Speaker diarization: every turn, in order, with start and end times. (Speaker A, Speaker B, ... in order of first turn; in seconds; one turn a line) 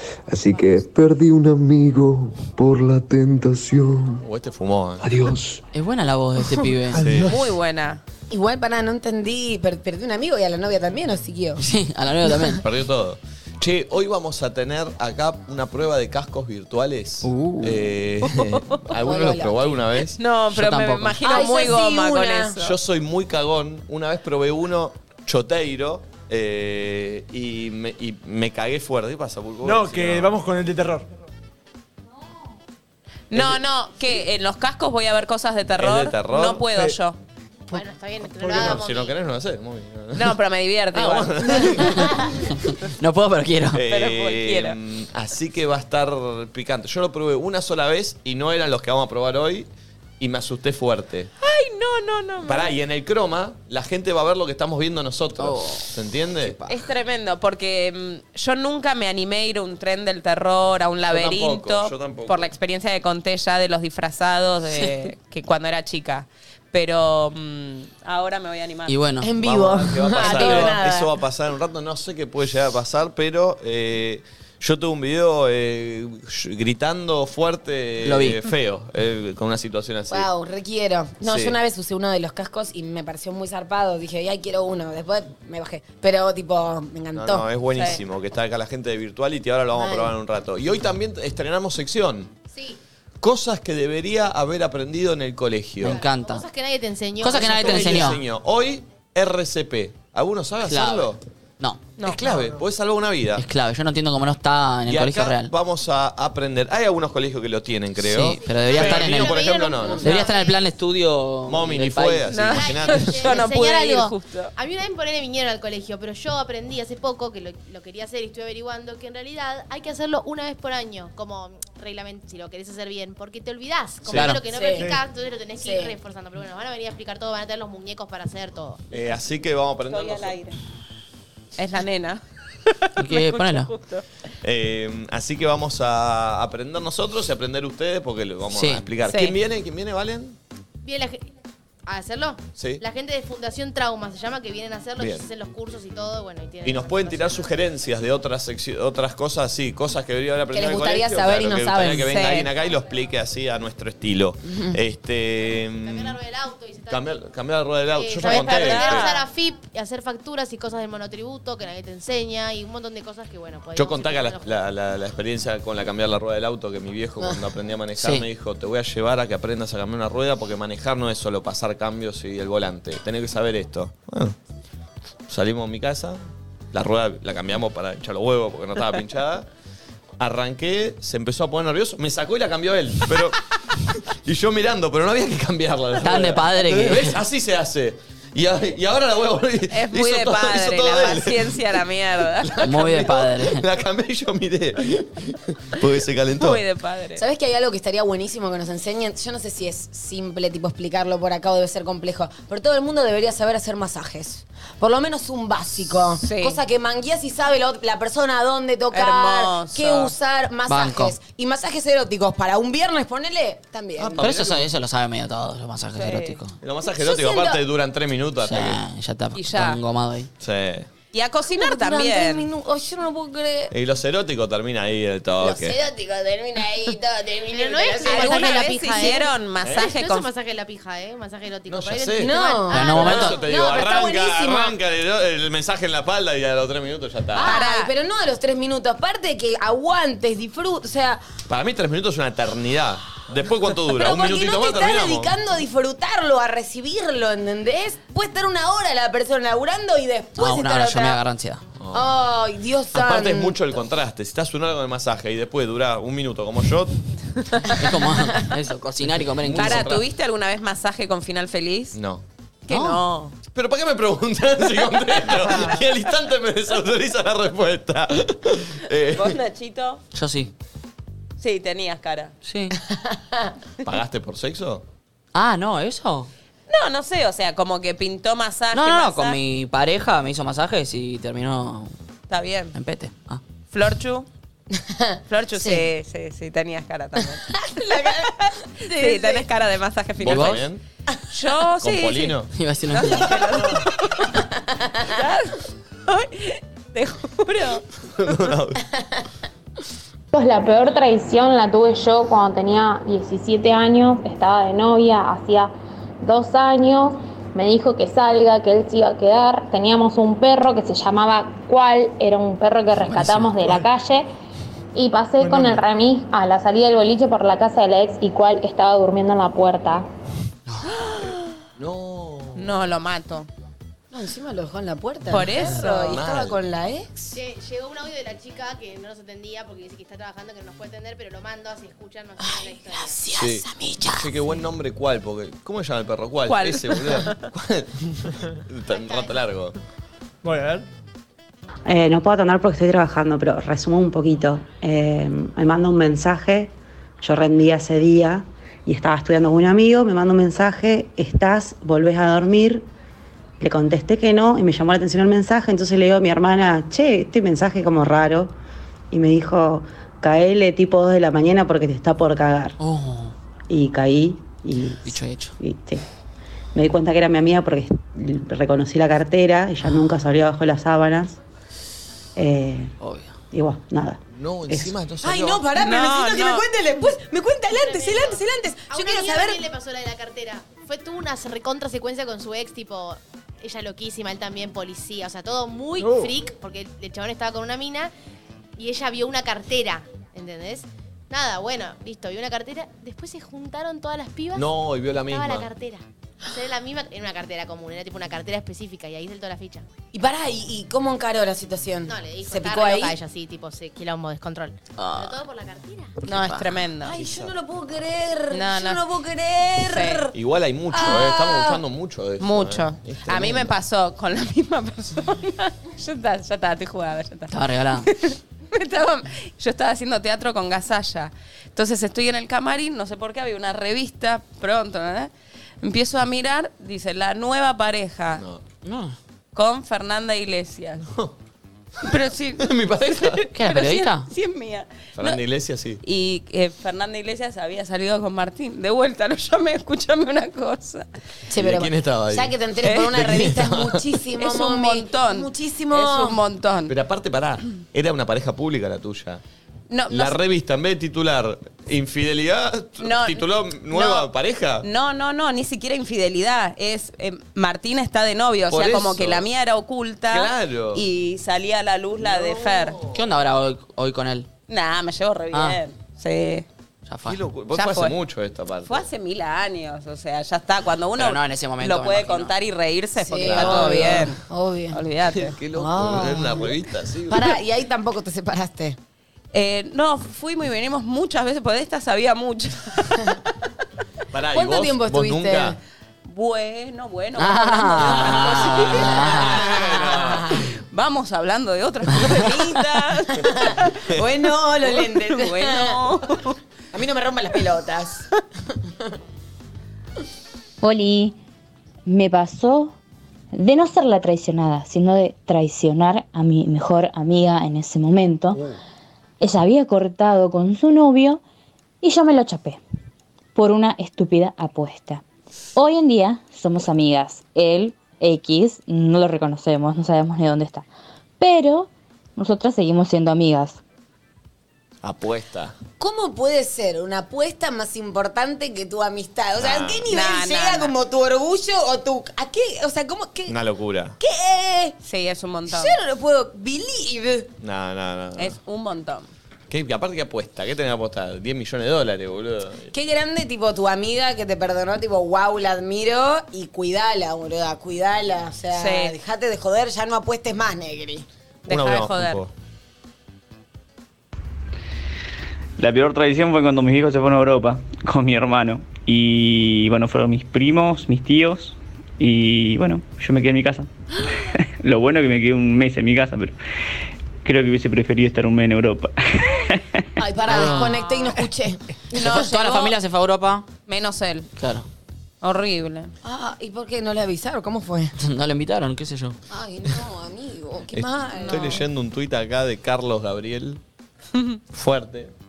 Speaker A: 0.3-4.2
Speaker B: 4.2-5.0
Speaker A: 5.0-5.6
Speaker C: 5.7-7.0
Speaker A: 6.9-7.3
Speaker B: 7.0-7.3
Speaker D: 7.2-8.0
Speaker E: 8.3-11.6
Speaker C: 11.6-12.6
Speaker B: 12.5-20.2
Speaker C: 17.2-17.9
Speaker E: 18.9-19.8
Speaker D: 20.2-22.8
Speaker C: 20.5-21.4
Speaker E: 21.2-22.6
Speaker B: 22.6-30.4
Speaker F: 29.6-31.1
Speaker D: 33.3-37.2
Speaker B: 33.3-33.6
Speaker B: 35.8-36.6
Speaker F: 36.6-36.9
Speaker G: 37.7-39.1
Speaker F: 38.4-38.8
Speaker B: 38.5-40.4
Speaker D: 40.1-42.1
Speaker B: 40.9-42.3
Speaker C: 42.8-43.8
Speaker B: 43.7-49.7
Speaker D: 43.9-44.8
Speaker B: 50.2-51.3
Speaker D: 51.4-52.7
Speaker B: 52.4-56.6
Speaker C: 55.4-56.8
Speaker D: 56.7-68.9
Speaker B: 61.1-62.5
Speaker C: 68.9-69.3
Speaker E: 69.2-71.1
Speaker B: 69.4-80.3
Speaker D: 70.2-70.8
Speaker C: 78.0-78.4
Speaker E: 80.1-87.5
Speaker B: 81.2-81.6
Speaker B: 87.2-92.3
Speaker D: 87.7-88.0
Speaker E: 89.7-90.1
Speaker G: 92.5-92.8
Speaker B: 93.2-96.0
Speaker C: 95.8-96.4
Speaker G: 95.8-98.2
Speaker C: 97.2-98.2
Speaker B: 97.4-101.2
Speaker C: 100.7-101.9
Speaker G: 102.0-102.3
Speaker B: 102.0-103.4
Speaker C: 103.3-105.5
Speaker B: 104.9-110.2
Speaker C: 108.0-109.4
Speaker G: 108.4-110.7
Speaker C: 110.0-112.4
Speaker B: 111.5-113.3
Speaker D: 112.3-114.5
Speaker G: 112.5-128.8
Speaker B: 124.0-124.4
Speaker C: 124.1-124.4
Speaker E: 124.5-124.9
Speaker F: 124.7-125.0
Speaker E: 125.6-126.0
Speaker B: 128.9-130.4
Speaker D: 129.9-130.6
Speaker D: 131.6-132.2
Speaker D: 132.8-134.0
Speaker C: 133.0-133.7
Speaker B: 134.4-140.4
Speaker C: 138.5-138.8
Speaker D: 139.0-139.3
Speaker G: 140.8-141.3
Speaker G: 141.8-147.6
Speaker B: 142.6-142.8
Speaker B: 145.0-145.2
Speaker B: 146.6-156.2
Speaker E: 150.5-152.2
Speaker D: 152.1-152.5
Speaker G: 155.8-157.1
Speaker B: 156.9-159.1
Speaker G: 157.9-164.5
Speaker D: 158.2-159.2
Speaker B: 163.7-174.3
Speaker C: 168.0-168.2
Speaker B: 175.3-176.2
Speaker B: 176.7-179.5
Speaker B: 180.2-183.4
Speaker B: 183.9-191.6
Speaker C: 186.0-187.2
Speaker D: 189.7-193.1
Speaker B: 192.4-196.6
Speaker C: 192.6-193.6
Speaker D: 196.3-197.2
Speaker E: 197.2-214.3
Speaker D: 206.2-206.6
Speaker D: 208.9-210.1
Speaker C: 210.7-211.2
Speaker B: 214.0-214.7
Speaker C: 214.2-216.6
Speaker D: 215.9-216.4
Speaker B: 216.6-218.8
Speaker E: 216.8-217.6
Speaker C: 218.4-220.3
Speaker D: 219.3-219.8
Speaker B: 220.4-220.9
Speaker D: 221.1-222.5
Speaker E: 221.5-223.7
Speaker B: 223.7-225.8
Speaker E: 225.4-228.7
Speaker G: 227.5-233.4
Speaker D: 228.0-230.3
Speaker B: 229.6-229.9
Speaker B: 231.7-237.5
Speaker E: 232.2-234.8
Speaker C: 232.7-233.4
Speaker E: 237.3-241.2
Speaker D: 237.3-237.9
Speaker B: 241.5-245.3
Speaker E: 243.8-251.2
Speaker C: 250.4-251.6
Speaker B: 251.8-252.1
Speaker E: 251.9-253.8
Speaker B: 252.9-256.9
Speaker C: 257.7-260.0
Speaker B: 259.4-260.1
Speaker D: 259.6-262.0
Speaker B: 261.9-262.2
Speaker D: 262.6-263.3
Speaker C: 262.7-263.0
Speaker B: 263.5-269.4
Speaker D: 269.1-270.0
Speaker C: 270.1-270.5
Speaker D: 271.4-272.3
Speaker C: 272.4-272.7
Speaker E: 272.9-273.1
Speaker B: 273.8-274.8
Speaker C: 275.3-276.3
Speaker D: 276.7-279.4
Speaker C: 278.7-281.9
Speaker D: 282.3-282.7
Speaker C: 282.7-283.4
Speaker D: 283.7-284.3
Speaker E: 284.7-285.9
Speaker D: 285.3-287.5
Speaker E: 287.5-289.5
Speaker D: 288.8-290.7
Speaker B: 290.2-290.8
Speaker C: 290.2-290.6
Speaker D: 291.3-292.4
Speaker B: 291.8-292.5
Speaker C: 292.5-293.5
Speaker D: 292.9-294.3
Speaker D: 295.0-297.8
Speaker B: 298.1-298.8
Speaker H: 300.3-305.7
Speaker H: 306.2-314.3
Speaker C: 313.1-313.5
Speaker H: 314.9-320.0
Speaker F: 315.4-315.8
Speaker D: 320.9-321.3
Speaker B: 321.2-322.8
Speaker D: 322.5-323.5
Speaker E: 324.1-327.4
Speaker D: 325.3-326.2
Speaker B: 325.7-326.6
Speaker G: 327.3-333.2
Speaker E: 332.4-334.6
Speaker B: 333.3-339.8
Speaker D: 336.5-337.4
Speaker G: 338.9-339.3
Speaker F: 340.4-340.9
Speaker I: 341.9-352.9
Speaker I: 353.6-358.5
Speaker I: 359.1-362.8
Speaker C: 362.8-363.3
Speaker I: 363.7-366.0
Speaker C: 365.0-365.5
Speaker I: 366.7-371.4
Speaker C: 369.8-370.1
Speaker I: 372.4-372.9
Speaker C: 373.0-373.3
Speaker I: 373.5-374.9
Speaker B: 374.4-375.7
Speaker E: 375.2-379.6
Speaker D: 375.7-376.6
Speaker G: 377.7-388.1
Speaker F: 386.0-386.3
Speaker G: 388.8-399.9
Speaker B: 394.5-395.7
Speaker E: 400.1-403.2
Speaker G: 402.1-406.2
Speaker C: 405.0-405.4
Speaker C: 406.2-406.7
Speaker D: 406.2-407.2
Speaker E: 407.0-410.3
Speaker B: 407.1-407.5
Speaker D: 408.5-409.0
Speaker D: 409.9-410.2
Speaker B: 410.3-413.7
Speaker E: 410.9-411.8
Speaker D: 412.4-417.5
Speaker C: 417.5-418.1
Speaker D: 418.1-425.3
Speaker D: 425.8-428.4
Speaker B: 428.4-428.6
Speaker C: 428.8-429.2
Speaker D: 429.5-431.1
Speaker D: 432.0-435.4
Speaker B: 432.6-433.4
Speaker C: 433.5-434.3
Speaker B: 435.2-436.0
Speaker D: 436.0-441.1
Speaker E: 441.5-446.4
Speaker B: 441.5-444.0
Speaker D: 442.8-443.1
Speaker D: 444.4-446.9
Speaker B: 446.9-449.4
Speaker D: 449.9-450.4
Speaker B: 450.1-454.9
Speaker D: 453.0-454.3
Speaker D: 454.8-463.0
Speaker B: 458.7-459.4
Speaker B: 460.3-461.0
Speaker B: 462.2-463.2
Speaker C: 463.1-464.5
Speaker D: 464.7-466.7
Speaker C: 465.5-465.8
Speaker C: 467.1-467.4
Speaker B: 467.2-469.1
Speaker D: 467.7-468.2
Speaker D: 468.8-474.4
Speaker C: 471.2-472.5
Speaker E: 473.2-475.0
Speaker C: 473.4-474.1
Speaker B: 473.4-474.3
Speaker D: 474.9-475.6
Speaker B: 475.3-477.6
Speaker E: 475.7-479.0
Speaker D: 479.5-483.3
Speaker B: 484.3-485.8
Speaker E: 484.5-485.8
Speaker D: 486.3-489.1
Speaker C: 487.4-489.6
Speaker E: 488.0-490.7
Speaker B: 489.4-490.5
Speaker D: 490.9-494.3
Speaker E: 492.3-496.1
Speaker D: 494.8-496.6
Speaker E: 496.9-498.3
Speaker J: 500.8-501.4
Speaker J: 502.1-502.9
Speaker J: 503.5-508.6
Speaker J: 509.4-511.4
Speaker J: 512.0-512.8
Speaker J: 513.5-515.2
Speaker J: 515.8-520.8
Speaker J: 521.4-523.8
Speaker B: 525.0-525.8
Speaker E: 526.0-533.5
Speaker B: 529.6-530.1
Speaker D: 530.1-530.9
Speaker B: 533.5-534.1
Speaker E: 534.2-535.0
Speaker D: 535.0-536.0
Speaker E: 535.7-537.5
Speaker B: 537.6-538.5
Speaker D: 538.4-539.3
Speaker B: 539.7-542.9
Speaker E: 542.9-551.2
Speaker D: 548.7-549.2
Speaker D: 551.6-552.4
Speaker B: 551.7-552.5
Speaker K: 555.8-563.9
Speaker K: 564.8-566.5
Speaker K: 567.4-570.0
Speaker E: 570.2-572.5
Speaker C: 570.5-571.0
Speaker D: 572.1-572.9
Speaker C: 572.2-573.6
Speaker D: 573.9-574.5
Speaker C: 574.6-574.9
Speaker D: 575.4-576.1
Speaker E: 576.2-578.1
Speaker C: 578.2-579.4
Speaker E: 579.5-581.8
Speaker B: 580.9-583.8
Speaker D: 581.4-581.9
Speaker D: 584.3-584.6
Speaker B: 584.7-585.3